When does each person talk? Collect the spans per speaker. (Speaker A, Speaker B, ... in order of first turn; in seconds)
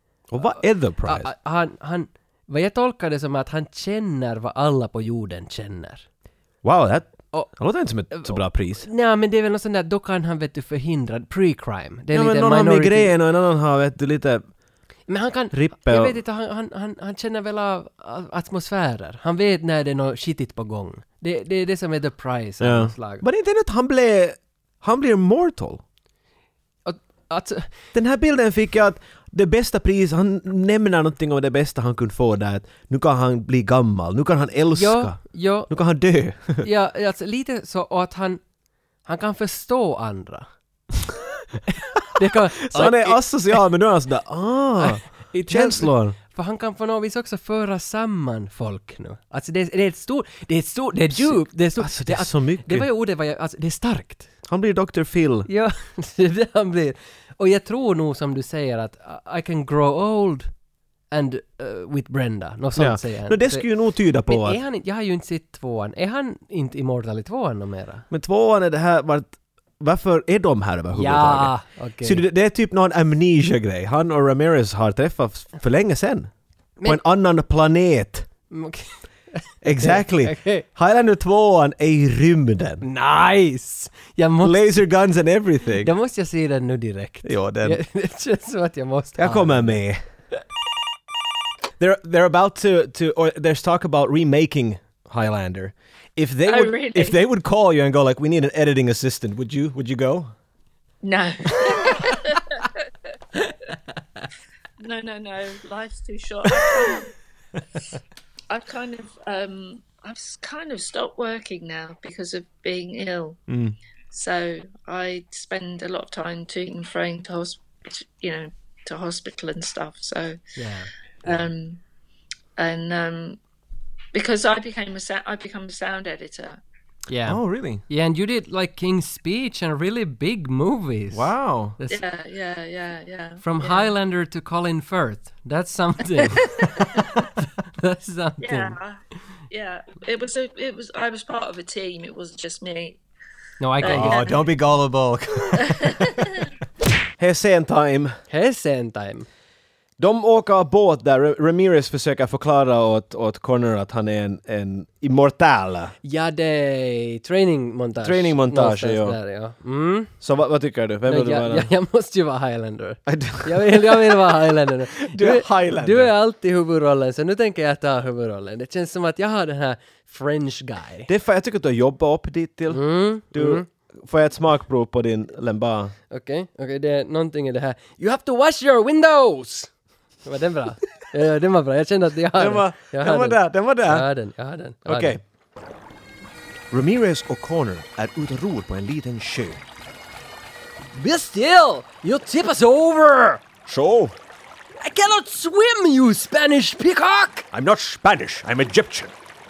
Speaker A: 0.3-1.3, 6.6-8.8, 12.1-14.4, 15.5-16.1, 22.6-25.8, 27.9-35.2, 35.7-36.6, 42.2-46.1, 51.1-52.9, 54.5-55.5, 62.7-64.6, 68.1-76.3, 76.8-78.2, 79.6-82.8, 84.4-85.9, 87.2-87.8, 89.2-90.0, 91.8-100.3, 113.5-113.8, 127.2-127.8, 131.1-131.8, 143.8-146.2, 147.2-148.1, 150.0-155.9, 158.0-159.2, 160.2-161.7, 163.1-164.5, 165.1-166.1, 171.1-175.9, 182.4-184.1, 184.8-185.2, 186.7-189.6, 193.7-194.1, 197.5-199.1
Speaker B: 1.0-6.0, 8.1-13.1, 15.1-23.2, 26.9-27.7, 34.8-35.7, 36.6-38.4, 39.0-40.5, 41.7-43.6, 44.8-54.3, 55.5-60.5, 61.1-63.7, 64.2-68.0, 70.9-72.2, 78.5-80.7, 82.8-84.8, 85.7-89.8, 120.5-120.9, 127.1-132.0, 133.4-138.8, 143.6-144.3, 148.3-149.3, 156.0-160.1, 161.1-171.1, 172.7-173.7, 176.1-179.7, 180.2-185.2, 190.9-193.4, 194.8-197.4
Speaker C: 96.5-97.2, 101.0-102.8, 104.8-107.1, 108.5-113.4, 114.1-120.4, 121.2-121.8, 122.6-123.4, 124.1-126.6, 131.9-133.9, 136.4-137.2, 138.4-139.0, 139.5-143.0, 143.8-144.4, 145.6-146.4